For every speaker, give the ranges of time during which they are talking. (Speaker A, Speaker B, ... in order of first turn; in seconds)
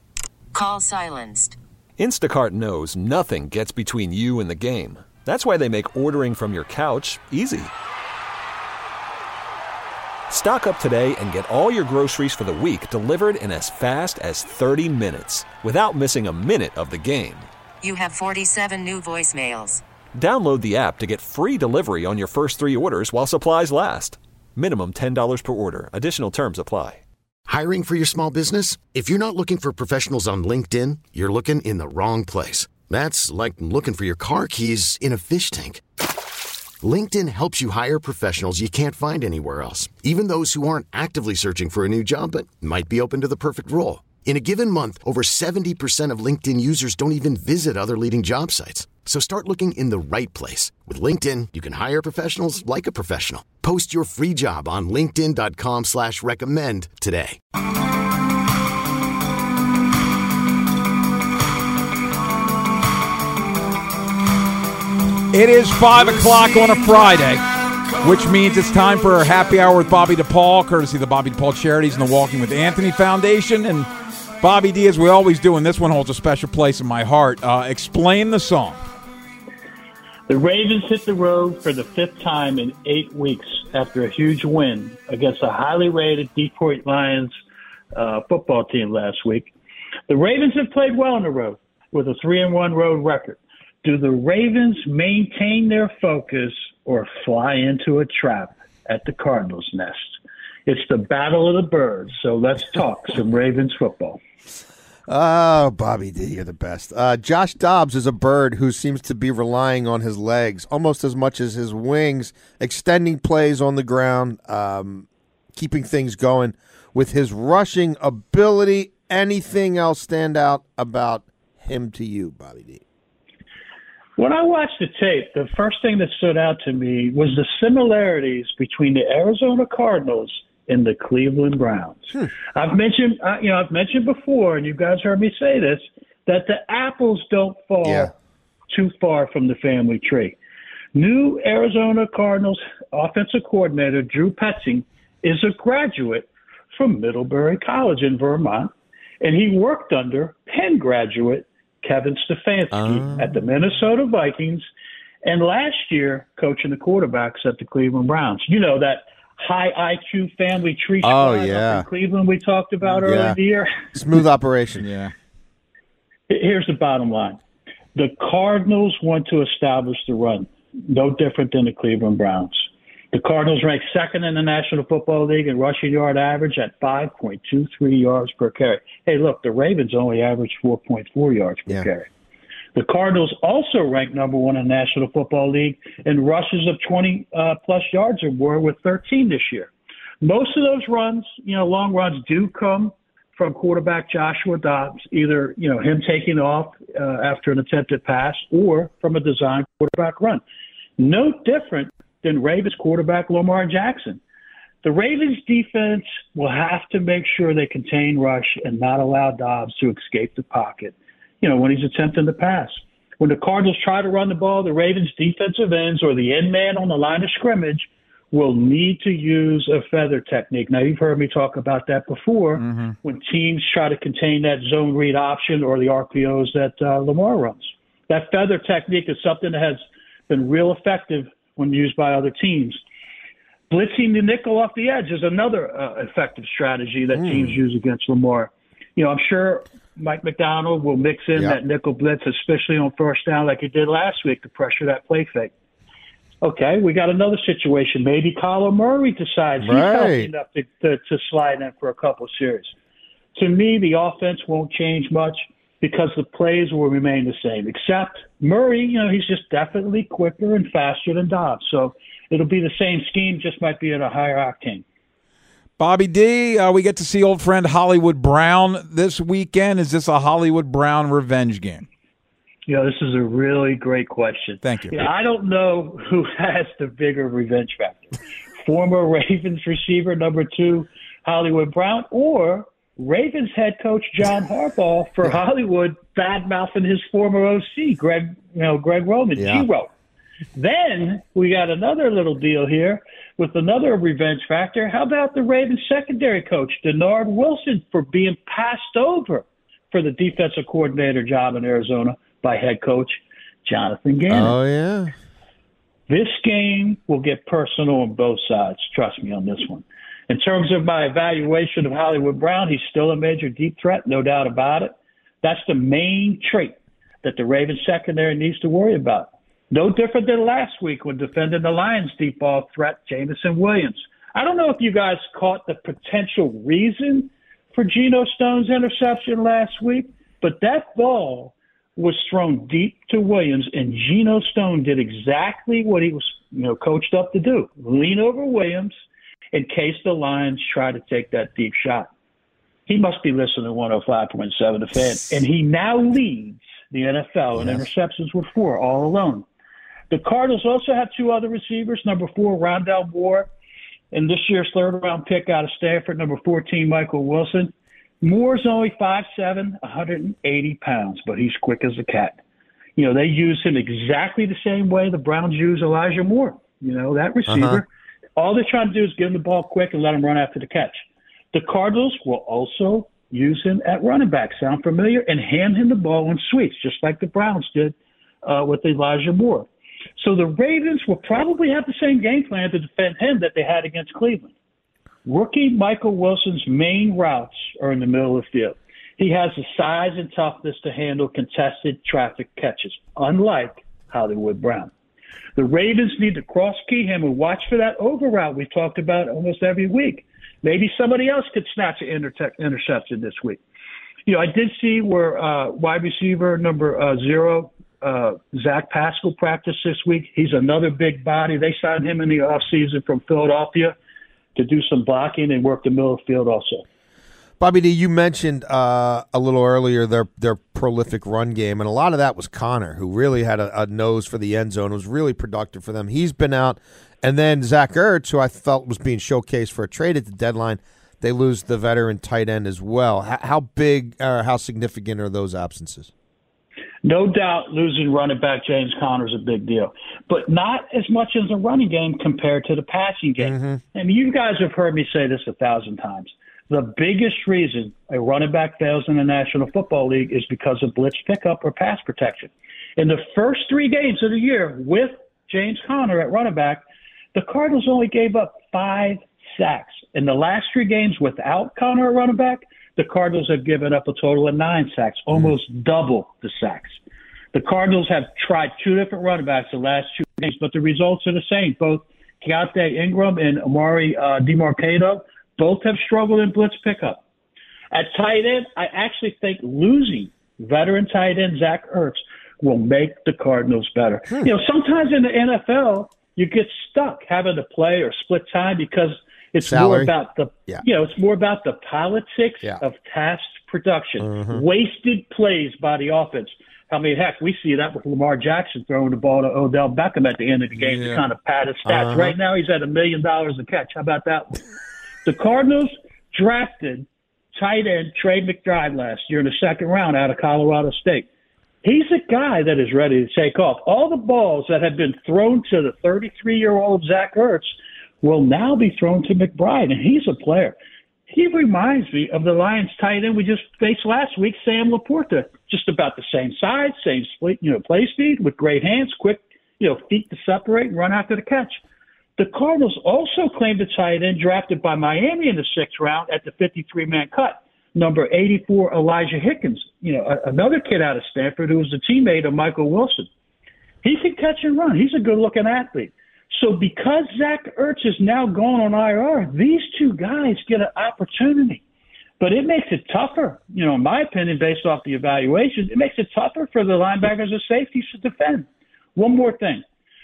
Speaker A: 0.5-1.6, 17.8-19.8
Speaker B: 2.0-7.7, 10.3-17.5, 20.2-27.0
Speaker C: 27.5-35.8, 36.8-57.4
Speaker D: 65.3-67.5, 68.0-73.9, 74.4-78.8, 164.8-165.1, 222.6-222.9, 265.8-271.9, 274.6-275.0
Speaker E: 80.3-87.3, 87.9-89.5, 90.1-104.2, 124.2-138.1, 138.7-140.4, 140.9-154.7, 155.2-163.9, 166.3-167.4, 167.9-182.1, 182.8-189.7, 190.2-200.4, 201.0-204.2, 204.8-232.8, 233.7-245.5, 246.4-252.8, 253.3-264.8, 272.7-289.9, 290.6-304.6, 306.1-338.9, 339.5-342.1, 342.9-349.4, 350.1-353.5, 354.1-362.4, 363.0-379.7, 380.2-384.5, 385.2-394.9, 395.6-403.6, 404.3-414.0, 414.6-416.9, 437.0-467.0, 467.5-477.2, 477.9-504.6, 505.2-511.3, 511.8-520.8, 521.3-531.8, 532.4-543.3, 544.0-551.8, 552.4-559.8
Speaker F: 105.1-122.8, 137.8-138.1, 152.7-153.3, 161.0-161.9, 163.0-163.4, 163.9-164.9, 237.2-237.5, 249.6-250.3, 289.4-289.6, 304.3-305.1, 367.5-367.8, 417.6-436.1, 443.4-443.8, 489.6-490.1, 494.2-494.6, 500.8-501.2, 501.9-502.4